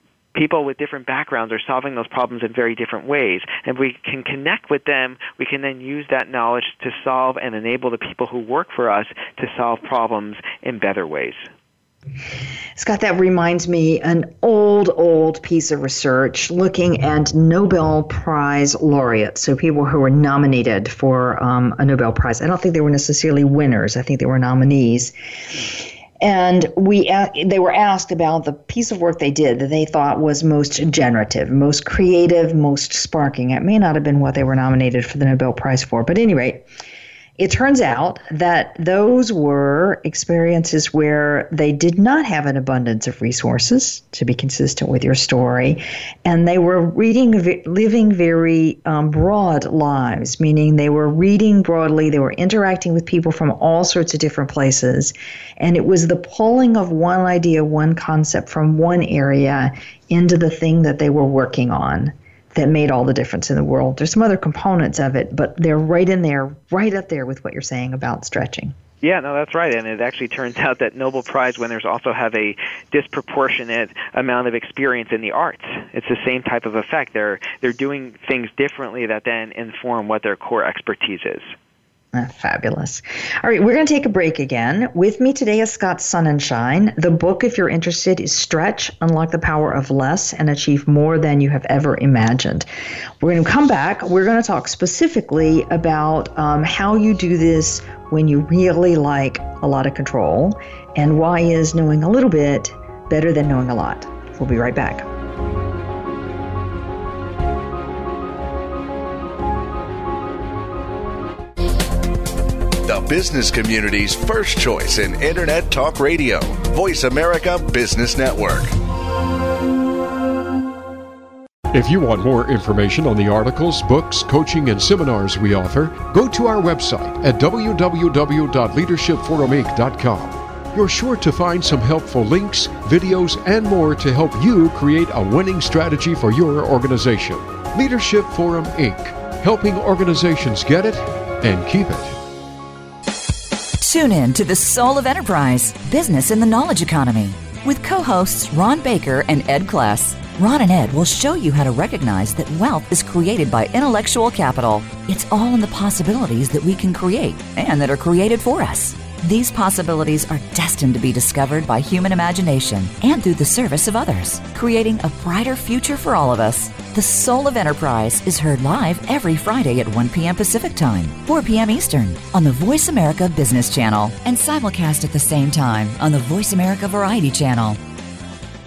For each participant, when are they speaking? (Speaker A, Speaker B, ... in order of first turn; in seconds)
Speaker A: 0.3-11.5, 69.0-81.5
Speaker B: 12.8-36.6, 37.4-68.7, 82.1-92.7, 93.2-105.1
Speaker C: 112.8-118.7
Speaker D: 121.7-142.2
Speaker E: 143.8-177.8